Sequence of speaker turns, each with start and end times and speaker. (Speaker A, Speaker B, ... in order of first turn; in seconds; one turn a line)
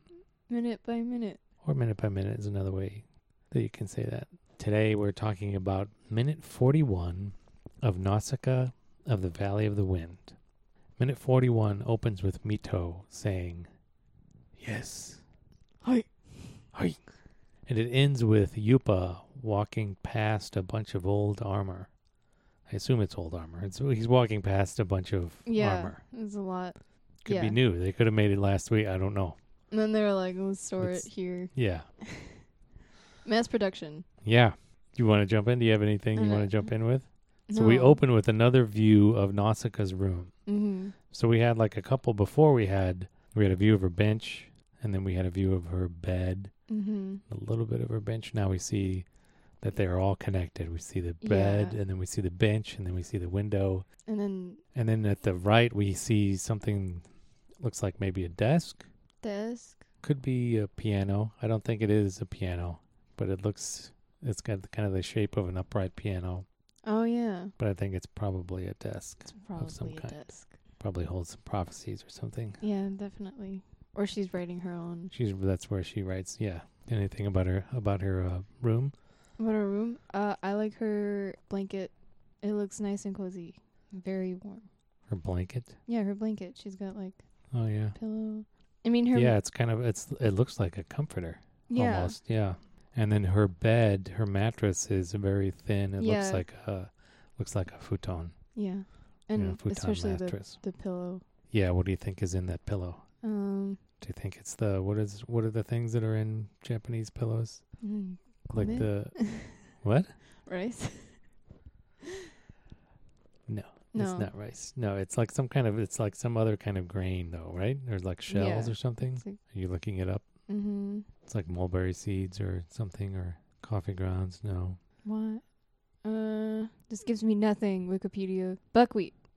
Speaker A: 0.5-1.4
Speaker B: 1.6-10.4
Speaker B: 11.0-13.7
Speaker B: 14.6-15.2
Speaker A: 15.8-16.6
Speaker B: 17.7-21.9
Speaker B: 22.7-26.0
Speaker A: 25.5-27.6
Speaker B: 27.2-29.4
Speaker A: 29.7-32.5
Speaker B: 30.8-31.9
Speaker A: 33.2-34.1
Speaker B: 34.2-40.3
Speaker A: 36.1-36.7
Speaker A: 37.5-38.0
Speaker A: 40.5-40.9
Speaker B: 41.1-46.5
Speaker A: 46.7-47.2
Speaker B: 47.3-49.1
Speaker B: 49.6-53.9
Speaker A: 51.2-51.8
Speaker A: 54.1-54.6
Speaker B: 54.7-57.1
Speaker B: 57.6-58.9
Speaker A: 59.2-59.8
Speaker B: 60.0-66.5
Speaker A: 66.8-67.5
Speaker B: 67.6-72.6
Speaker A: 69.3-70.6
Speaker A: 72.6-75.1
Speaker B: 75.1-78.9
Speaker A: 79.4-84.7
Speaker B: 85.1-85.8
Speaker A: 85.9-87.2
Speaker B: 87.5-88.0
Speaker A: 88.0-89.4
Speaker B: 89.1-98.3
Speaker A: 91.7-92.2
Speaker A: 96.0-96.5
Speaker A: 98.5-101.2
Speaker B: 99.3-100.6
Speaker B: 101.5-103.0
Speaker A: 103.2-103.8
Speaker B: 104.0-107.7
Speaker A: 107.8-109.6
Speaker B: 108.5-110.2
Speaker A: 110.5-111.2
Speaker B: 113.5-120.3
Speaker A: 113.9-114.3
Speaker A: 118.3-119.4
Speaker A: 120.5-121.1
Speaker B: 121.3-124.8
Speaker A: 125.0-125.4
Speaker A: 126.0-129.1